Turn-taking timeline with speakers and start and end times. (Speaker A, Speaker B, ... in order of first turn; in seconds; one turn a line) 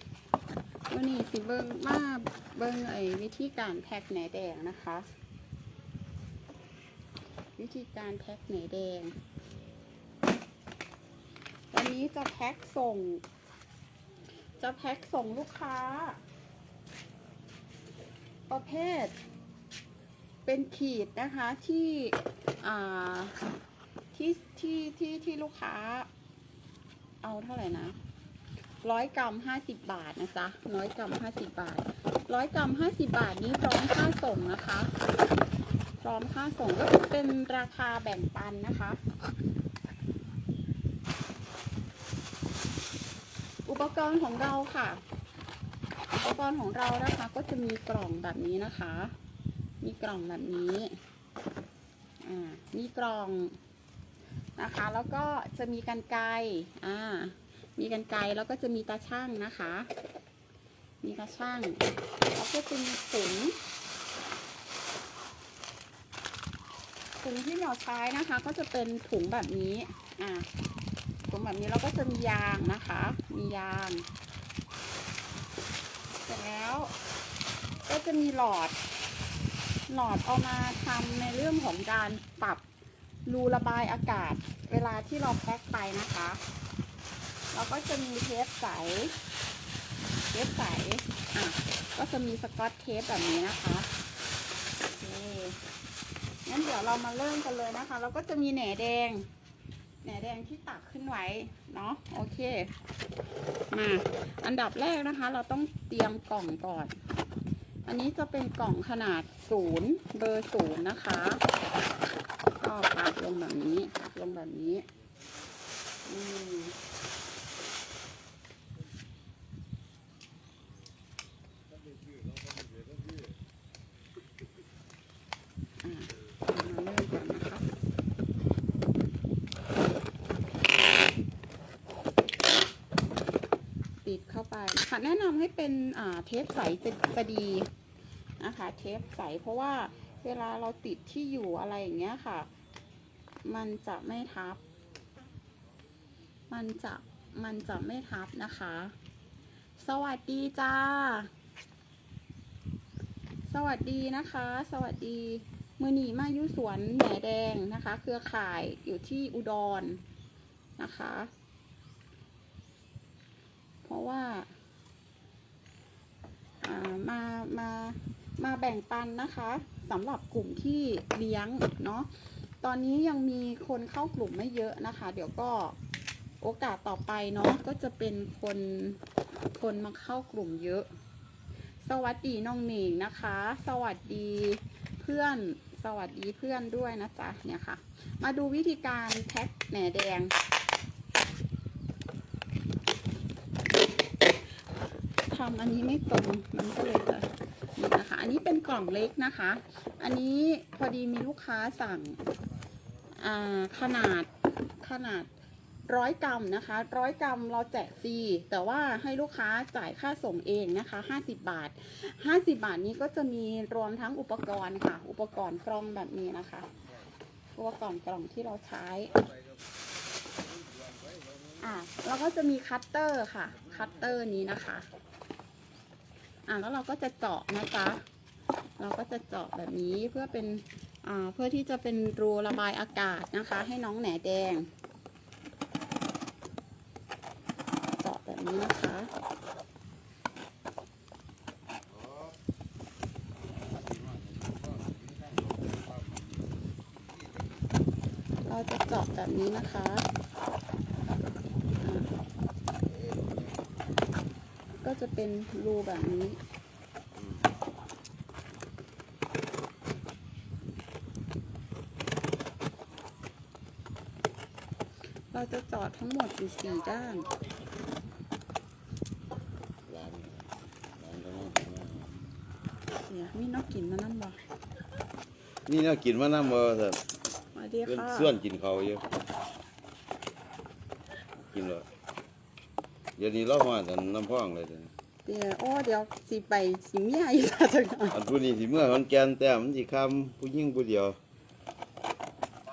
Speaker A: 0.9-5.1
Speaker A: 7.6-9.1
Speaker A: 11.7-13.2
Speaker A: 14.6-16.2
Speaker A: 18.5-19.1
Speaker A: 20.4-23.4
Speaker A: 24.1-26.1
Speaker A: 27.2-27.9
Speaker A: 28.8-34.9
Speaker A: 36.0-39.0
Speaker A: 43.6-45.0
Speaker A: 46.1-49.1
Speaker A: 49.8-51.0
Speaker A: 52.2-53.6
Speaker A: 54.6-59.9
Speaker A: 61.0-63.5
Speaker A: 67.2-70.5
Speaker A: 71.3-74.0
Speaker A: 76.2-76.9
Speaker A: 77.8-78.8
Speaker A: 79.9-82.6
Speaker A: 83.2-86.4
Speaker A: 87.5-89.1
Speaker A: 90.3-93.9
Speaker A: 94.8-95.6
Speaker A: 96.5-99.3
Speaker A: 100.0-102.7
Speaker A: 103.7-107.0
Speaker A: 107.8-111.4
Speaker A: 112.6-114.8
Speaker A: 116.0-116.7
Speaker A: 125.8-127.7
Speaker A: 134.0-137.7
Speaker A: 138.4-142.5
Speaker A: 143.4-144.6
Speaker A: 146.5-148.9
Speaker A: 149.8-151.3
Speaker A: 153.5-160.0
Speaker A: 160.8-161.3
Speaker A: 163.8-164.5
Speaker A: 166.6-175.8
Speaker A: 176.4-179.0
Speaker A: 179.5-180.9
Speaker A: 181.8-190.3
Speaker A: 195.3-202.2
Speaker A: 203.2-205.3
Speaker A: 205.9-216.7
Speaker A: 217.6-219.2
Speaker B: 220.4-221.6
Speaker A: 221.6-224.9
Speaker B: 223.5-224.2
Speaker A: 226.5-228.0
Speaker A: 228.8-234.7
Speaker A: 238.0-239.1
Speaker B: 241.9-242.4
Speaker B: 243.5-247.7
Speaker A: 248.4-250.1
Speaker A: 251.8-252.1
Speaker B: 252.8-253.7
Speaker A: 254.8-256.4
Speaker B: 257.1-257.5
Speaker A: 265.3-267.3
Speaker B: 269.9-272.2
Speaker A: 272.9-274.4
Speaker B: 275.6-277.0
Speaker A: 277.5-278.3
Speaker B: 277.9-279.0
Speaker B: 281.5-281.9
Speaker B: 283.2-284.9
Speaker A: 285.2-288.2
Speaker B: 288.1-291.2